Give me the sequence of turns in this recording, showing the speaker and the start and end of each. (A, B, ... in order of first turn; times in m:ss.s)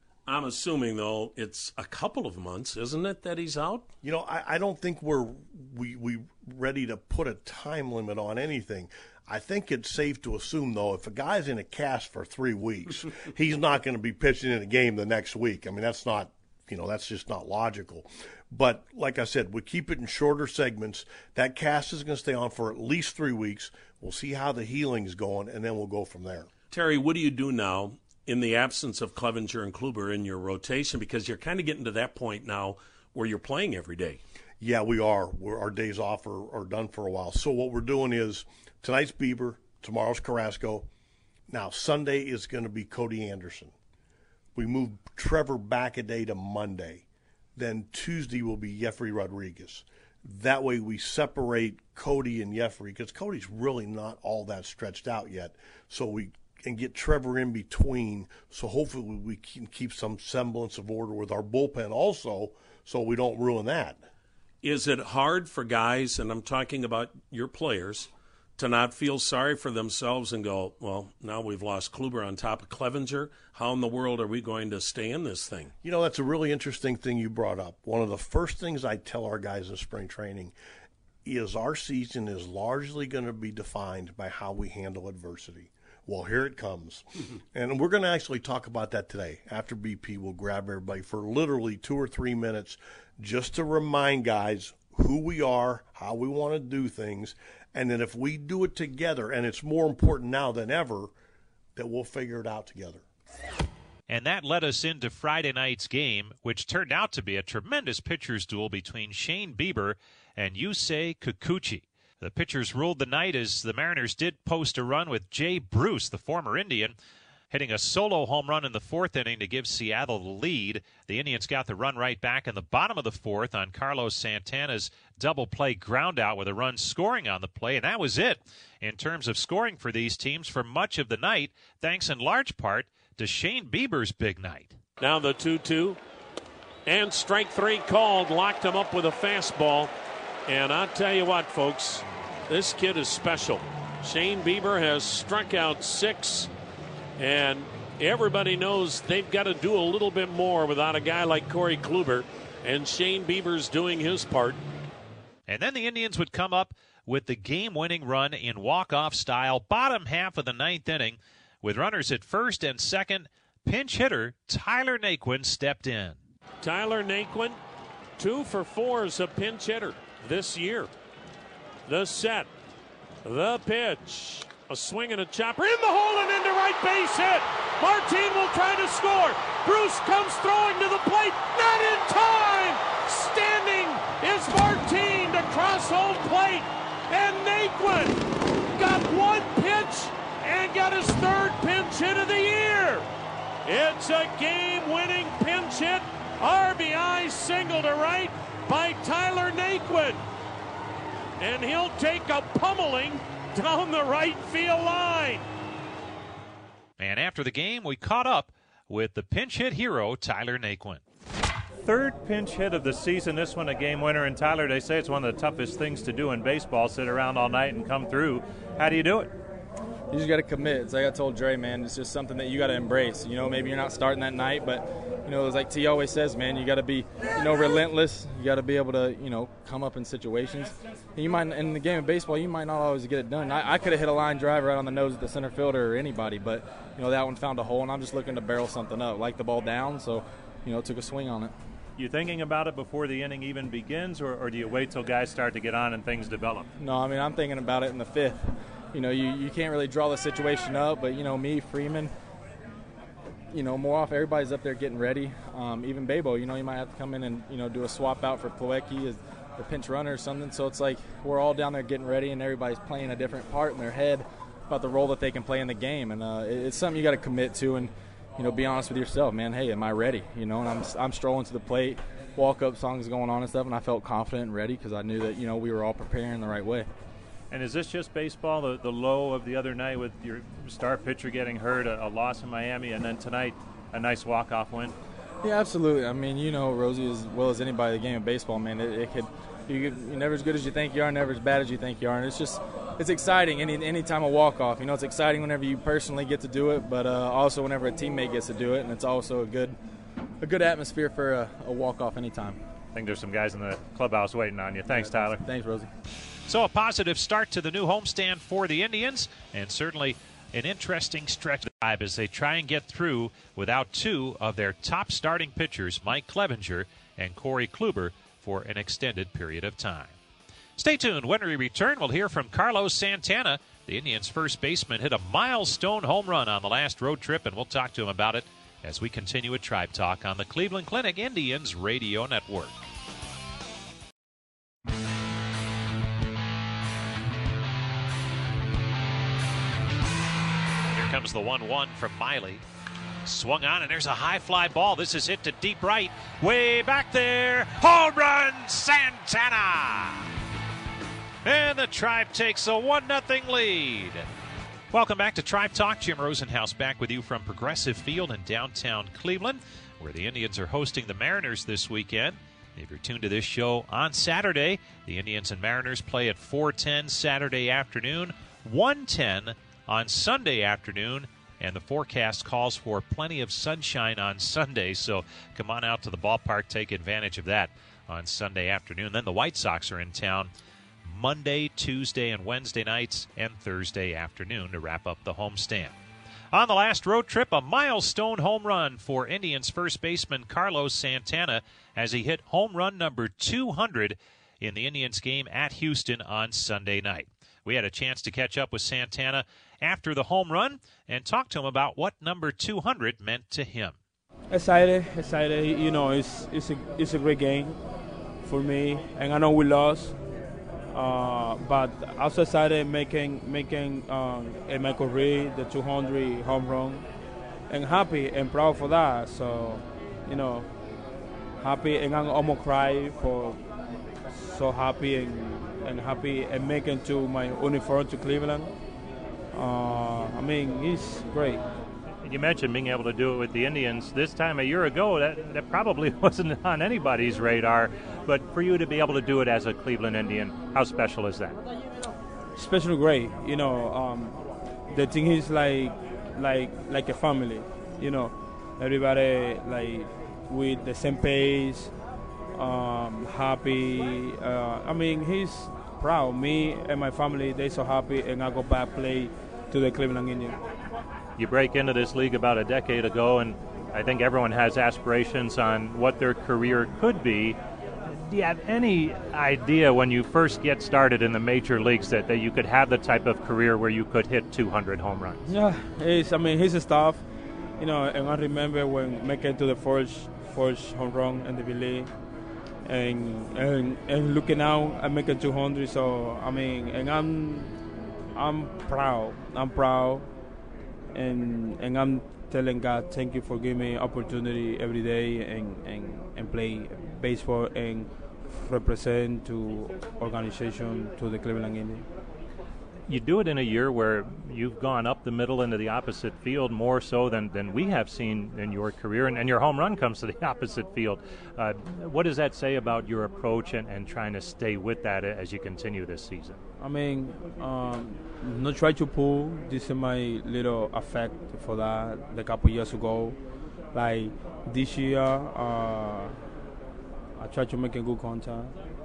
0:00.3-0:03.9 A
0:04.0-0:26.5 B
0:26.7-0:34.2 A
0:34.6-0:40.9 B
0:41.5-0:43.7 B
0:44.6-1:04.0 B
1:04.6-1:15.7 A
1:15.8-1:20.5 B
1:21.2-1:41.1 B
1:41.8-1:43.0 B
1:44.1-1:57.0 C
1:57.5-2:14.8 C
2:15.0-2:16.0 A
2:16.9-2:19.9 A
2:20.5-2:26.5 A
2:27.2-2:34.6 A
2:35.5-2:46.2 C
2:46.6-2:47.6 A
2:48.2-2:50.9 A
2:51.9-2:52.5 A
2:53.2-3:13.1 A
3:13.7-3:20.2 A
3:21.4-3:25.5 A
3:27.0-3:31.0 C
3:31.8-3:39.4 D
3:40.1-4:01.5 E
4:02.0-4:06.7 D
4:06.8-4:12.1 E
4:13.5-4:36.9 E
4:37.5-4:45.0 D
4:45.4-4:59.8 E
5:00.4-5:02.6 E
5:02.9-5:05.4 D
5:04.9-5:05.9 E
5:06.5-5:20.2 C
5:20.8-5:32.8 C
5:40.9-5:42.6 C
5:43.3-5:50.3 C
5:51.4-5:54.3 C
5:54.9-6:20.5 C
6:21.0-6:26.0 C
6:26.5-6:44.0 C
6:44.5-6:47.8 F
6:48.4-6:50.2 F
6:50.9-6:57.1 F
6:57.7-7:00.7 F
7:01.6-7:03.6 F
7:04.3-7:08.7 F
7:09.5-7:11.6 F
7:12.2-7:21.6 D
7:22.6-7:31.9 F
7:32.5-7:40.6 F
7:41.4-7:55.4 D
7:55.5-7:57.2 F
7:57.8-8:02.1 F
8:02.8-8:07.8 F
8:08.3-8:10.3 F
8:11.1-8:22.1 F
8:23.1-8:36.6 D
8:36.8-8:43.4 F
8:43.9-8:46.4 F
8:47.4-8:48.8 F